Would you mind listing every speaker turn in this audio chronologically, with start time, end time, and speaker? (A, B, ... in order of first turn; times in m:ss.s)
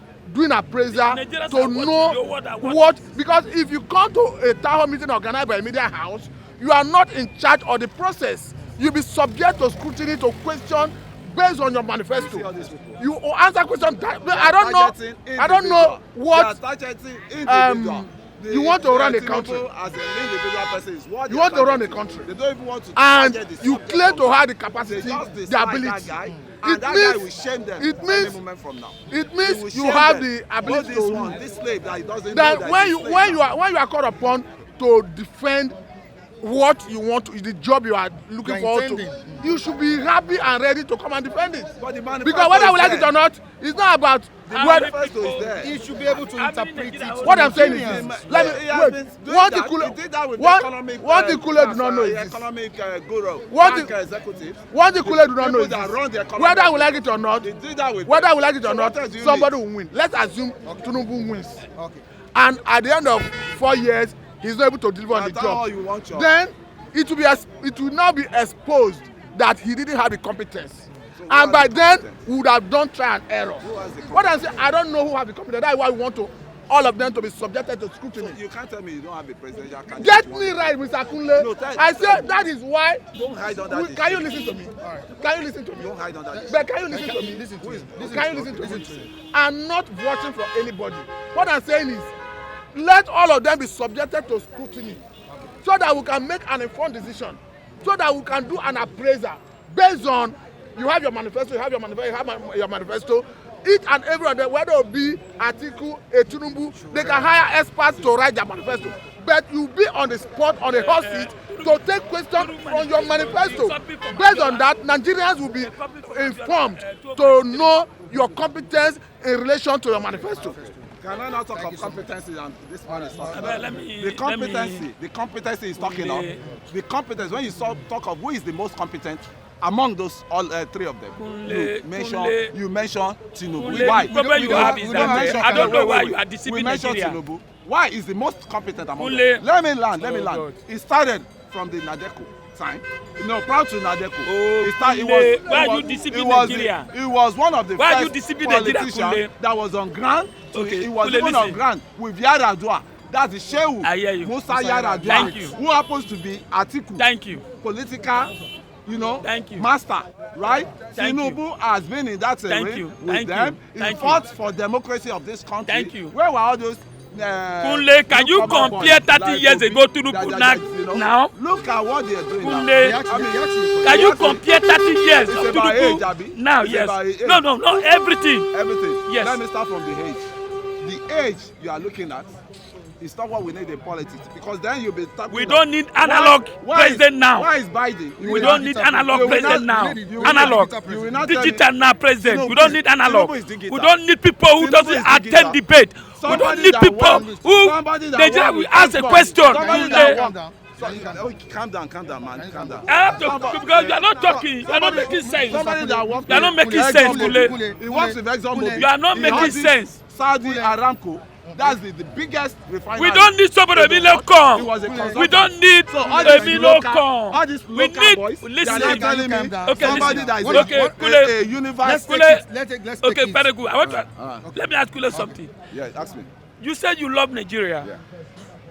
0:00.3-0:16.6 A
0:00.9-0:03.0 B
0:12.1-0:13.0 C
0:14.3-0:24.3 C
0:17.4-0:19.7 A
0:21.3-0:22.3 A
0:22.9-0:27.3 A
0:24.9-0:33.4 C
0:26.3-0:26.6 D
0:27.8-0:28.4 A
0:29.1-0:31.4 A
0:32.3-0:35.8 A
0:36.4-0:44.9 A
0:38.4-0:39.6 D
0:41.8-0:43.1 C
0:44.5-0:45.7 C
0:44.5-0:47.9 B
0:45.6-0:48.6 D
0:47.2-0:52.5 A
0:47.6-0:59.5 C
0:53.5-0:53.9 A
0:54.7-0:57.5 A
0:58.0-1:01.6 A
1:00.6-1:01.1 D
1:01.7-1:02.0 D
1:02.4-1:18.4 A
1:05.1-1:06.3 C
1:11.1-1:12.2 C
1:13.6-1:14.6 C
1:18.2-1:20.7 C
1:20.0-1:23.0 A
1:21.4-1:22.4 C
1:23.1-1:24.4 C
1:23.6-1:25.9 A
1:24.8-1:25.2 D
1:25.8-1:26.7 C
1:26.3-1:29.1 D
1:26.5-1:27.5 A
1:27.6-1:28.8 C
1:28.0-1:32.1 A
1:32.7-1:35.0 A
1:35.6-2:00.7 A
1:46.8-1:47.3 D
1:50.6-1:54.7 B
1:55.6-1:57.7 B
1:59.9-2:01.0 D
2:01.0-2:37.1 C
2:01.5-2:02.1 D
2:02.9-2:03.6 D
2:03.2-2:04.9 B
2:05.8-2:06.4 B
2:11.2-2:12.5 B
2:13.6-2:17.2 B
2:13.6-2:15.9 D
2:19.0-2:19.4 B
2:20.0-2:20.6 B
2:24.3-2:26.9 B
2:27.8-2:29.3 B
2:30.5-2:31.6 B
2:33.8-2:34.4 B
2:34.5-2:35.5 D
2:35.0-2:35.6 B
2:37.0-2:37.4 B
2:37.6-2:38.3 C
2:38.9-2:54.4 C
2:39.2-2:39.7 B
2:40.7-2:41.4 B
2:42.5-2:44.2 B
2:45.7-2:46.1 B
2:47.6-2:51.3 B
2:52.4-2:53.0 B
2:52.8-2:54.1 D
2:53.8-2:58.5 B
2:55.3-2:57.4 C
2:58.5-3:00.2 C
2:59.1-2:59.4 B
3:00.8-3:02.3 C
3:03.0-3:11.7 C
3:05.3-3:07.5 B
3:08.2-3:11.5 D
3:08.3-3:20.2 B
3:12.2-3:13.9 C
3:14.6-3:15.6 C
3:16.2-3:42.1 C
3:16.3-3:17.6 D
3:19.4-3:21.3 D
3:22.3-3:23.4 D
3:22.9-3:25.7 B
3:25.0-3:29.5 D
3:26.3-3:27.6 B
3:28.6-3:30.0 B
3:30.4-3:30.8 D
3:31.4-3:31.8 D
3:33.0-3:41.3 B
3:34.8-3:35.3 D
3:36.0-3:36.7 D
3:38.6-3:41.0 D
3:41.8-3:43.5 D
3:41.8-3:42.4 B
3:43.0-3:45.5 B
3:43.8-3:44.5 C
3:44.4-3:45.4 D
3:45.7-3:46.3 C
3:46.6-3:47.9 B